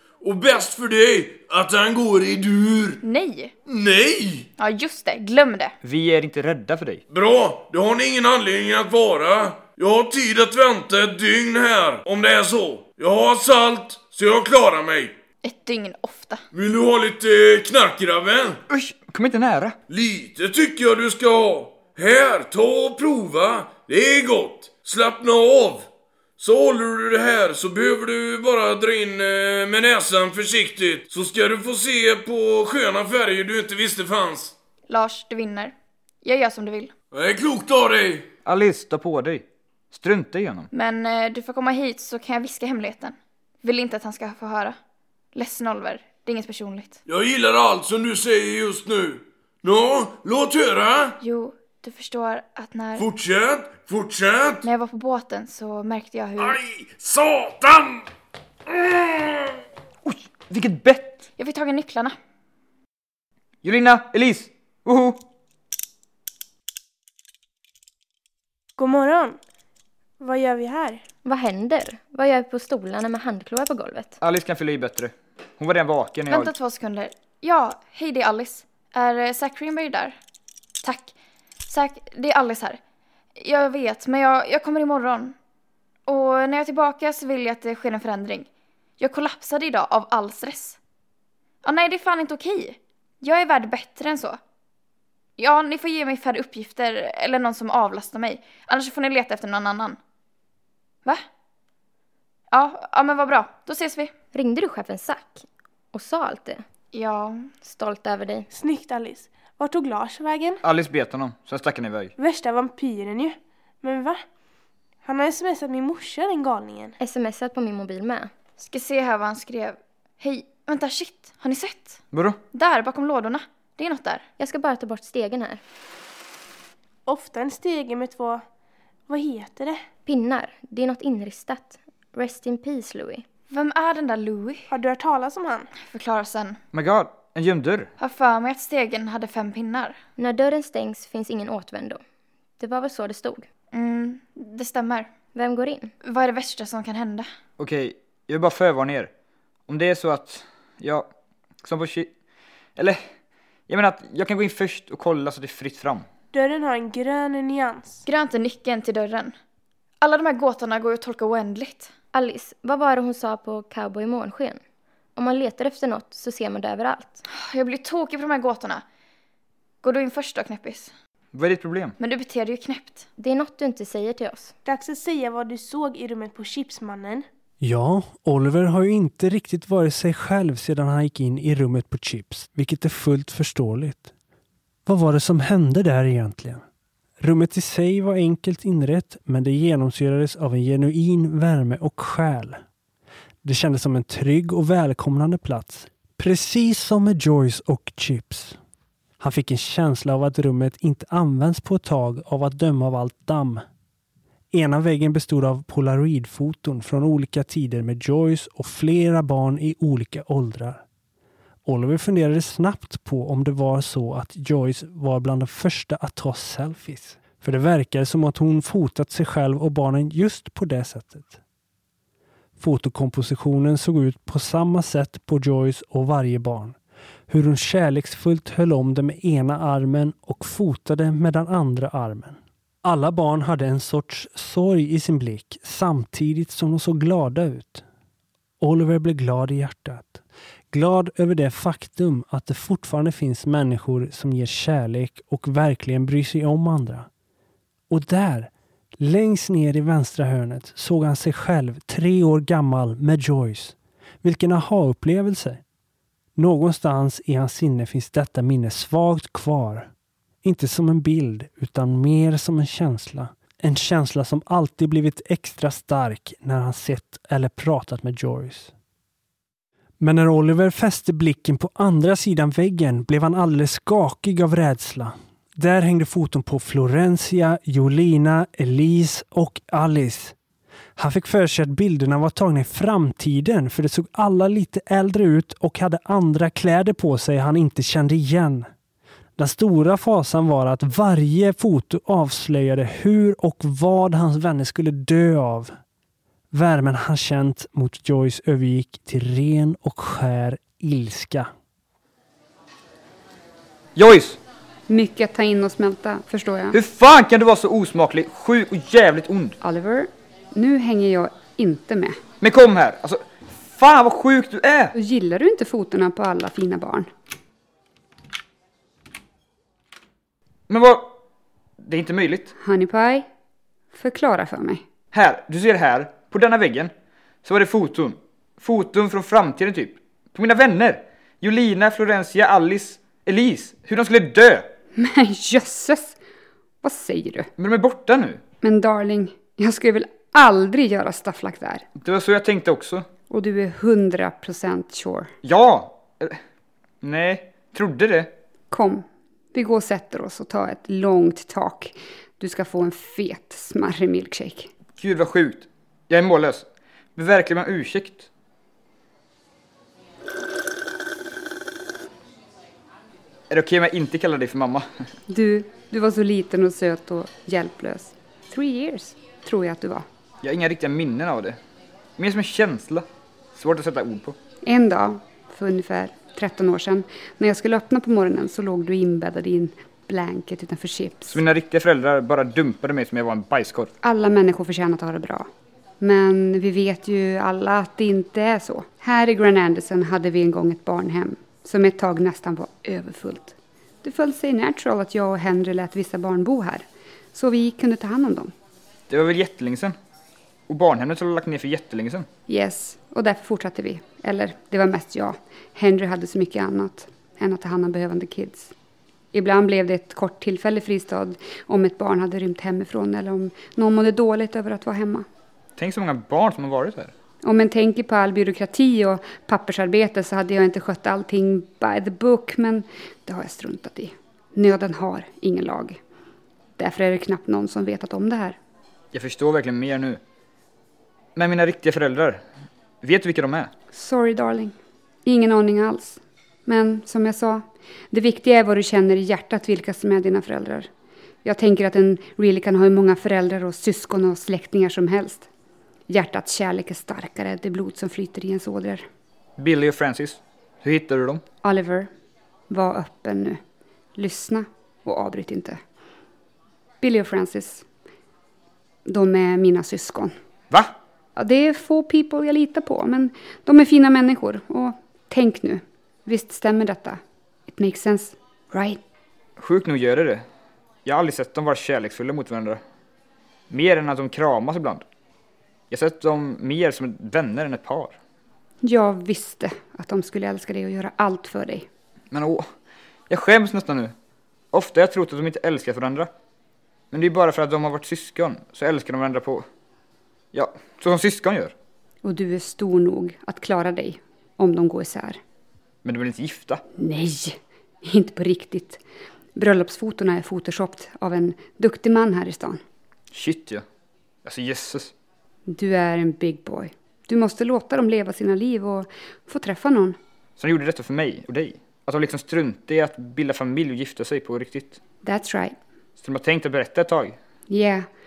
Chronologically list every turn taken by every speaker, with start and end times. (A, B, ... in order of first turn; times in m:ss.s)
0:00.2-0:03.0 A
0:03.0-0:03.5 B
0:03.7-0:04.5 A
0:04.6-0:05.7 B
0:05.8-0:07.0 C
0:07.1-0:15.1 A
0:15.4-0:16.4 B
0:16.5-0:18.6 A
0:18.7-0:19.8 C
0:19.9-0:25.8 A
0:26.4-0:34.5 A
0:34.9-0:36.9 B
0:37.1-0:38.3 A
0:38.4-0:40.7 C
0:40.7-0:44.8 B
0:45.3-0:47.0 B
0:47.1-0:51.2 A
0:51.2-0:53.0 B
0:53.0-0:54.6 A
0:54.6-0:56.6 B
0:56.4-0:58.0 A
0:58.7-0:59.5 A
1:00.0-1:01.2 C
1:01.4-1:02.2 B
1:03.6-1:05.2 C
1:08.8-1:09.4 D
1:10.2-1:11.0 D
1:11.2-1:14.2 E
1:14.2-1:16.5 C
1:16.3-1:20.1 B
1:20.8-1:21.1 B
1:21.7-1:22.8 B
1:23.4-1:25.4 B
1:26.1-1:28.5 B
1:29.0-1:30.8 B
1:31.6-1:34.4 B
1:35.4-1:40.0 B
1:42.5-1:44.1 B
1:44.3-1:46.6 E
1:46.9-1:47.5 B
1:47.6-1:48.5 E
1:48.5-1:50.6 D
1:50.6-1:52.1 C
1:52.2-1:54.2 D
1:55.0-1:57.0 D
1:57.0-1:58.3 E
1:58.6-2:02.0 B
2:02.1-2:02.4 C
2:02.5-2:04.2 B
2:04.4-2:05.6 E
2:07.0-2:08.4 D
2:09.1-2:09.8 D
2:10.0-2:13.2 E
2:13.5-2:14.7 B
2:14.7-2:15.7 D
2:15.8-2:16.6 B
2:16.7-2:17.9 C
2:18.0-2:20.0 B
2:20.2-2:22.0 E
2:22.6-2:23.5 E
2:23.7-2:25.1 B
2:25.3-2:25.9 E
2:26.0-2:27.3 B
2:27.6-2:29.1 C
2:29.7-2:31.1 C
2:31.6-2:32.1 C
2:32.8-2:33.1 C
2:33.7-2:36.1 C
2:36.3-2:38.0 D
2:38.0-2:39.3 B
2:40.0-2:41.9 B
2:42.1-2:44.6 E
2:45.2-2:47.2 E
2:47.3-2:48.8 B
2:49.8-2:50.9 B
2:51.3-2:52.0 C
2:52.0-2:53.1 B
2:53.2-2:54.5 E
2:54.6-2:57.2 D
2:57.6-3:04.1 F
3:04.8-3:06.6 F
3:07.2-3:12.6 F
3:13.4-3:18.6 F
3:19.2-3:23.6 F
3:24.5-3:30.8 F
3:31.6-3:41.4 F
3:42.6-3:46.8 F
3:47.3-3:57.8 F
3:58.6-4:07.1 F
4:07.9-4:15.6 F
4:16.4-4:19.9 F
4:20.4-4:28.7 F
4:30.0-4:40.3 F
4:41.0-4:48.7 F
4:49.4-4:55.7 F
4:56.5-5:01.5 F
5:03.9-5:04.4 C
5:04.9-5:06.8 G
5:06.7-5:09.6 C
5:09.6-5:12.2 G
5:12.4-5:14.9 C
5:14.9-5:17.1 G
5:20.7-5:21.2 C
5:21.8-5:22.5 C
5:22.6-5:23.2 G
5:23.9-5:24.8 G
5:25.1-5:26.9 C
5:27.4-5:34.7 C
5:35.0-5:36.2 G
5:36.8-5:37.5 G
5:37.6-5:38.4 C
5:38.6-5:41.9 G
5:42.0-5:43.1 C
5:43.3-5:45.3 G
5:45.4-5:46.4 C
5:47.0-5:48.3 C
5:48.7-5:54.7 G
5:55.0-5:58.3 C
6:03.5-6:05.1 C
6:05.3-6:10.0 G
6:10.4-6:11.6 C
6:12.2-6:14.4 C
6:14.6-6:21.4 G
6:21.3-6:23.9 C
6:24.0-6:25.5 G
6:26.0-6:38.5 G
6:39.1-6:40.0 C
6:40.7-6:42.3 C
6:42.5-6:48.7 G
6:49.3-6:55.2 G
6:55.8-6:57.1 C
6:57.4-7:06.0 G
7:06.8-7:08.6 G
7:09.1-7:10.2 C
7:11.3-7:12.4 C
7:13.0-7:13.7 C
7:13.9-7:14.7 G
7:15.2-7:20.9 G
7:21.4-7:25.5 G
7:26.1-7:29.0 G
7:29.6-7:31.4 C
7:31.6-7:32.1 G
7:32.7-7:33.6 G
7:34.2-7:35.8 G
7:37.0-7:37.8 G
7:39.0-7:40.3 G
7:41.4-7:49.0 G
7:49.6-7:50.4 C
7:51.0-7:52.8 C
7:53.7-7:55.0 C
7:55.9-7:58.2 C
7:58.8-8:01.9 G
8:02.3-8:02.7 C
8:03.3-8:04.1 C
8:04.7-8:06.3 C
8:07.1-8:09.6 C
8:10.5-8:11.7 C
8:12.2-8:15.4 G
8:16.0-8:16.8 C
8:17.0-8:19.0 G
8:19.6-8:22.8 G
8:23.3-8:23.8 C
8:24.4-8:25.1 C
8:25.7-8:30.2 G
8:30.6-8:35.0 C
8:35.2-8:35.7 G
8:36.2-8:37.4 C
8:37.7-8:38.1 G